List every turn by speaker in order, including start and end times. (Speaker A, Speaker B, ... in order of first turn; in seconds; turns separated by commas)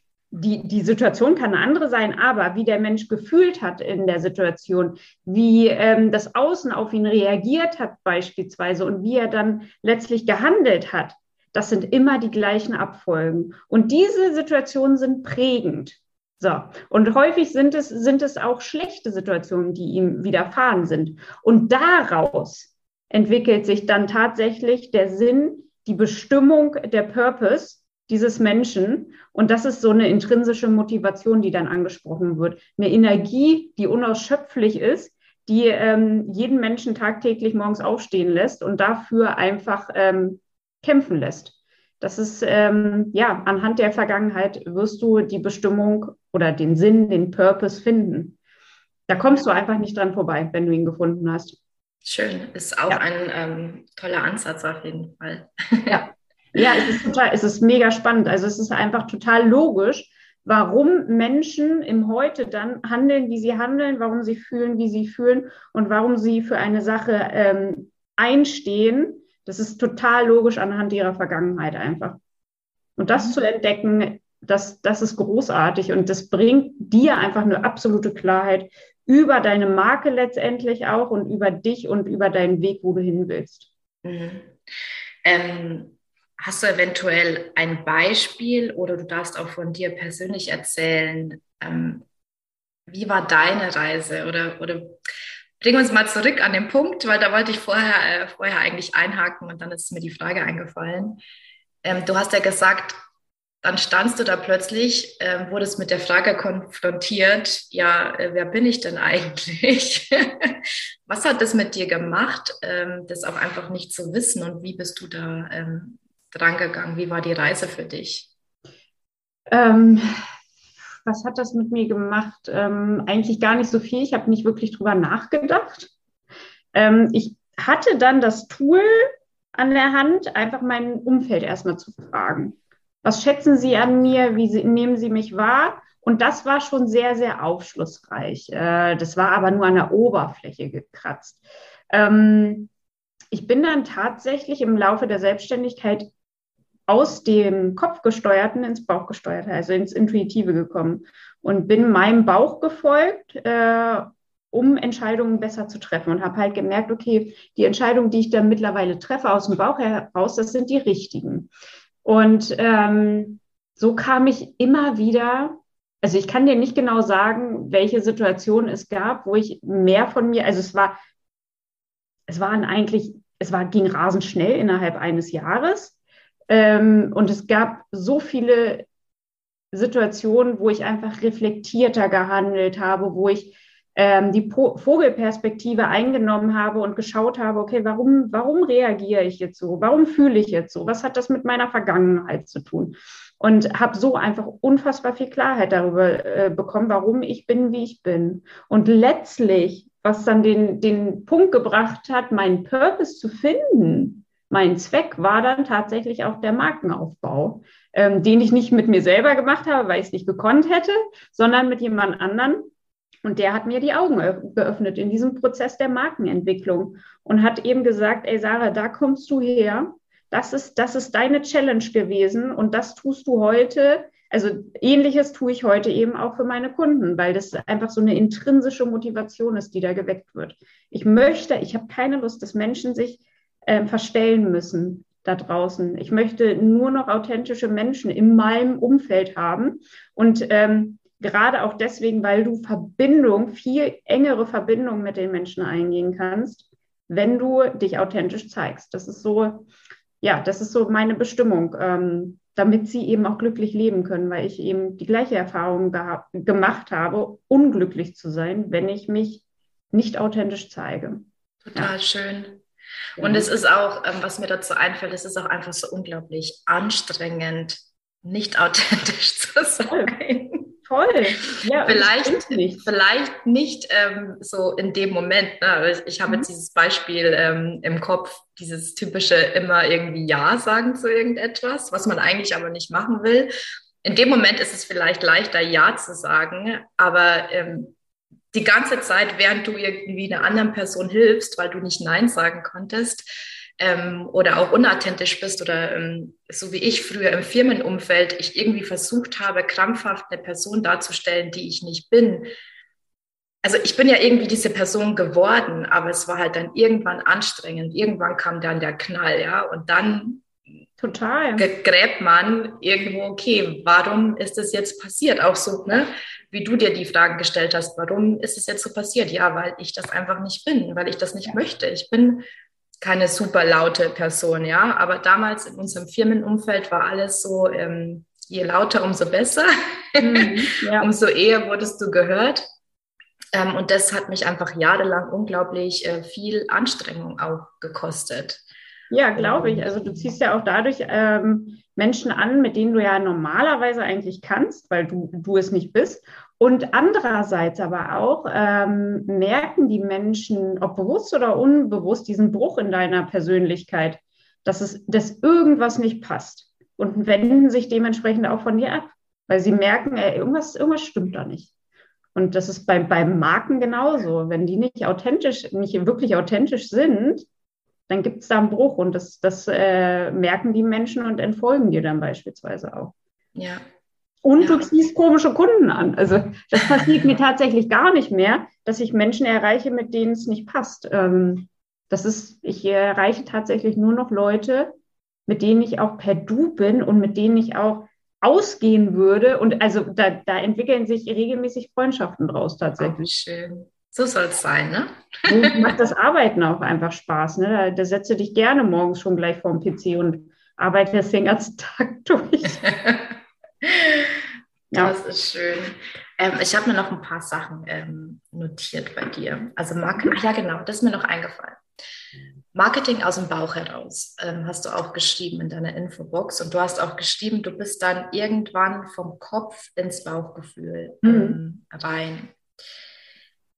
Speaker A: 0.3-48.4, Speaker A: 49.1-51.6, Speaker B: 52.0-56.0, Speaker A: 55.9-72.2, Speaker B: 56.6-57.0, Speaker A: 73.0-83.7, Speaker B: 84.0-84.6, Speaker B: 85.2-92.0, Speaker B: 92.9-95.0, Speaker B: 95.6-101.2, Speaker B: 101.8-103.0, Speaker B: 103.6-118.3, Speaker A: 119.5-120.2, Speaker A: 121.0-125.9, Speaker A: 126.7-142.7, Speaker A: 143.3-146.1, Speaker A: 146.9-161.5, Speaker A: 162.1-171.0, Speaker A: 172.3-175.9, Speaker A: 176.5-178.9, Speaker A: 179.7-212.7, Speaker A: 213.2-249.7, Speaker A: 250.2-259.4, Speaker A: 259.9-261.9, Speaker B: 261.6-262.6, Speaker A: 263.2-263.5, Speaker B: 263.2-270.7, Speaker A: 269.9-270.1, Speaker A: 270.9-272.9, Speaker B: 271.8-283.5, Speaker B: 284.0-287.9, Speaker B: 288.5-302.5, Speaker B: 303.6-310.5, Speaker A: 311.0-311.7, Speaker B: 311.6-322.4, Speaker B: 323.0-332.6, Speaker A: 330.2-331.1, Speaker B: 333.5-338.6, Speaker A: 339.1-361.7, Speaker B: 339.4-340.3, Speaker A: 362.4-367.5, Speaker A: 368.1-373.1, Speaker B: 373.6-373.8, Speaker A: 374.4-384.9, Speaker B: 374.6-374.9, Speaker B: 376.9-377.3, Speaker A: 385.5-393.3, Speaker B: 393.0-396.0, Speaker A: 395.5-402.9, Speaker B: 402.8-411.8, Speaker A: 404.9-405.2, Speaker B: 412.7-422.5, Speaker A: 421.2-421.6